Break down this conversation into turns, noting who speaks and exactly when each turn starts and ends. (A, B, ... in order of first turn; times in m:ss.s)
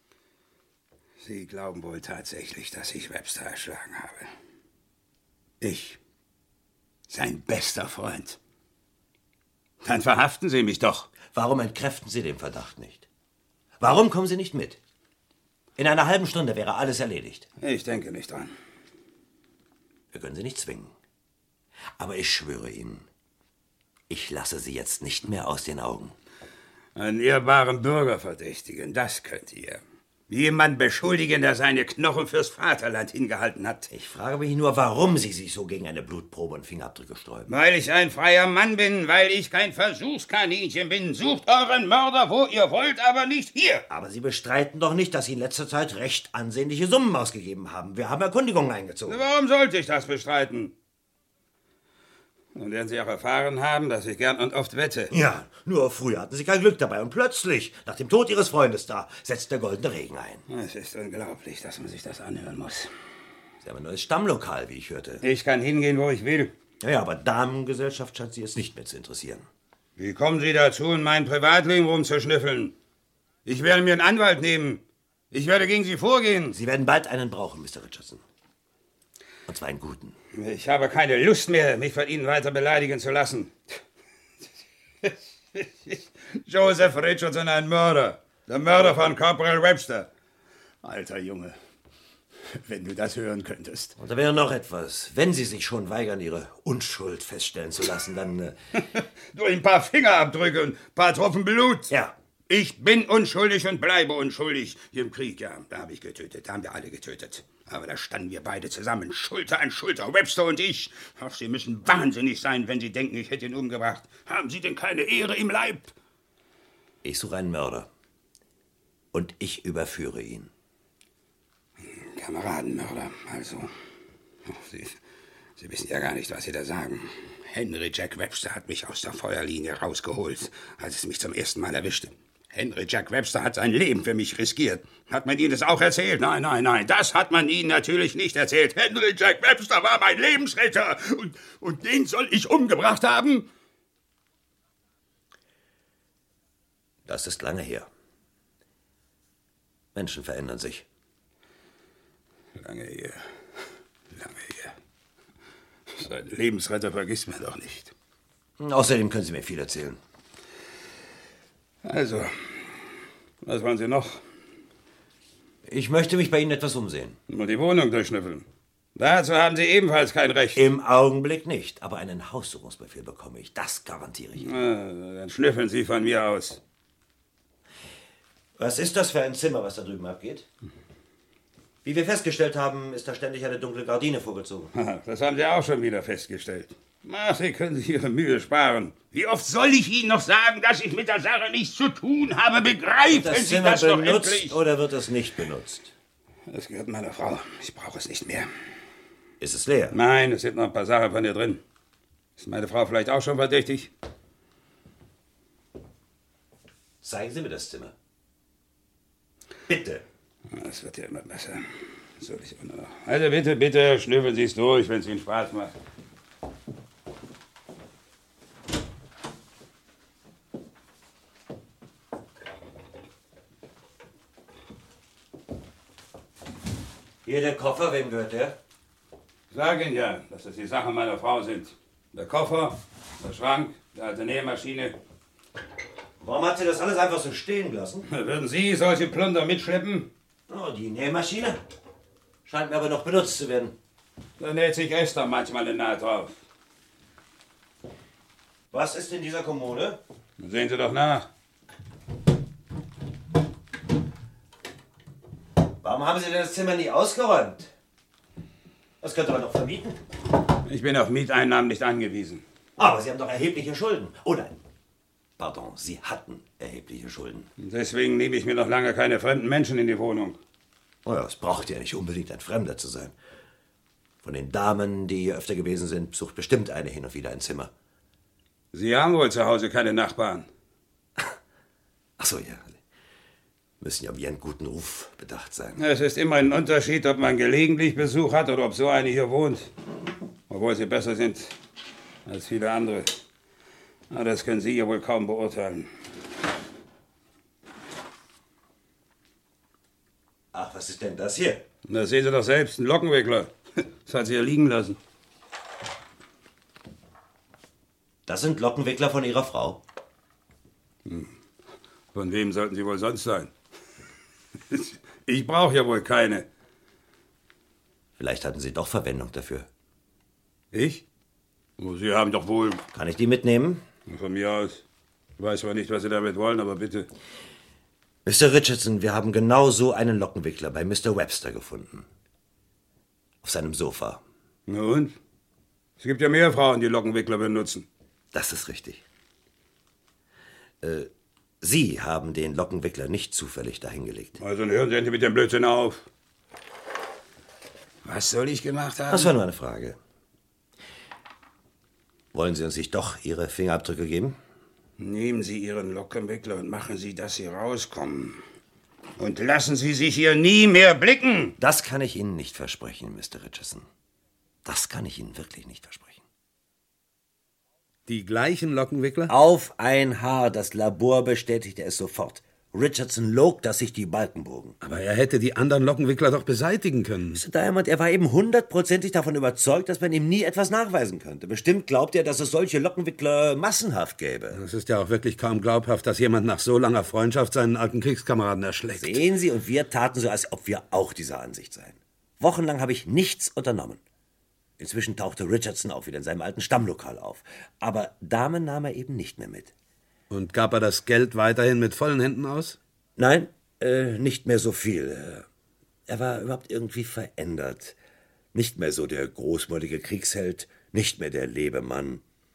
0:01.2-0:04.3 A
0:05.6-0:06.0 A
0:07.1-0:08.4 A
0:09.8-0:11.1 A
0:11.2-0:13.1 B
0:13.8-0:14.8 B
0:15.8-0:17.5 B
0:17.6-0:18.5 A
0:20.1-0:20.9 B
0:22.0-0:23.1 B
0:24.1-0:26.2 B
0:27.0-0:33.9 A
0:33.9-0:37.5 B
0:37.5-0:43.8 A
0:43.9-0:49.3 B
0:49.1-0:50.7 A
0:52.6-0:55.1 A
0:55.1-1:00.4 B
1:00.5-1:02.9 A
1:03.6-1:05.2 B
1:05.2-1:06.5 A
1:06.8-1:09.4 B
1:10.0-1:12.7 A
1:13.5-1:16.5 A
1:16.5-1:18.2 B
1:19.5-1:20.2 B
1:20.4-1:23.5 A
1:25.0-1:30.1 A
1:30.8-1:31.6 A
1:32.5-1:34.0 A
1:34.0-1:38.6 B
1:39.0-1:41.9 A
1:42.5-1:55.9 A
1:57.0-1:57.9 B
1:59.1-2:00.5 B
2:02.2-2:03.7 A
2:04.5-2:05.0 A
2:05.6-2:23.5 A
2:27.1-2:27.9 B
2:29.9-2:30.8 B
2:32.6-2:33.3 A
2:34.1-2:34.8 A
2:36.0-2:37.9 A
2:38.6-2:40.0 B
2:41.8-2:42.6 A
2:43.4-2:44.2 A
2:45.6-2:47.2 B
2:47.3-2:48.4 A
2:49.0-2:50.6 A
2:50.6-2:54.6 B
2:54.4-2:56.6 A
2:58.6-3:00.5 B
3:01.8-3:04.7 B
3:04.8-3:14.6 A
3:13.1-3:15.9 B
3:16.5-3:18.5 A
3:19.4-3:20.0 B
3:19.9-3:21.6 A
3:22.4-3:23.9 A
3:27.0-3:27.9 B
3:29.7-3:30.0 B
3:30.5-3:35.7 A
3:47.2-3:48.6 B
3:49.5-3:55.0 A
3:56.2-3:58.1 B
3:58.1-4:00.1 A
4:00.5-4:01.6 B
4:02.5-4:03.8 B
4:04.4-4:06.4 A
4:08.7-4:10.0 B
4:10.4-4:11.3 A
4:15.8-4:17.7 B
4:19.0-4:20.0 B
4:20.7-4:22.4 A
4:22.8-4:24.6 B
4:25.4-4:27.5 B
4:27.6-4:30.4 A
4:31.0-4:33.1 B
4:34.2-4:37.7 B
4:38.7-4:40.5 A
4:42.2-4:42.8 B
4:43.8-4:45.8 B
4:45.8-4:49.7 A
4:50.5-4:51.5 A
4:52.3-4:53.1 A
4:54.1-4:55.9 A
5:00.5-5:01.6 B
5:01.9-5:03.5 A
5:04.0-5:05.0 A
5:08.3-5:09.8 B
5:11.1-5:11.3 A
5:12.1-5:13.5 A
5:14.7-5:16.5 A
5:18.2-5:19.7 B
5:20.7-5:21.0 A
5:21.8-5:22.8 A
5:22.9-5:23.8 B
5:24.1-5:24.8 A
5:25.4-5:27.1 A
5:28.2-5:32.1 B
5:33.4-5:34.2 B
5:34.7-5:35.2 A
5:36.0-5:37.9 A
5:38.3-5:39.0 B
5:40.8-5:41.1 B
5:41.6-5:44.4 B
5:44.4-5:46.0 A
5:48.0-5:49.3 A
5:49.1-5:50.0 B
5:52.3-5:54.4 B
5:55.0-5:58.4 A
5:59.2-6:01.6 A
6:01.6-6:03.8 B
6:04.6-6:06.2 B
6:08.1-6:09.3 C
6:09.3-6:14.8 B
6:14.8-6:17.4 C
6:17.4-6:24.6 B
6:24.5-6:29.2 C
6:29.0-6:34.0 B
6:34.8-6:39.7 B
6:40.3-6:42.8 C
6:43.2-6:45.5 B
6:46.1-6:48.0 B
6:48.5-6:52.2 B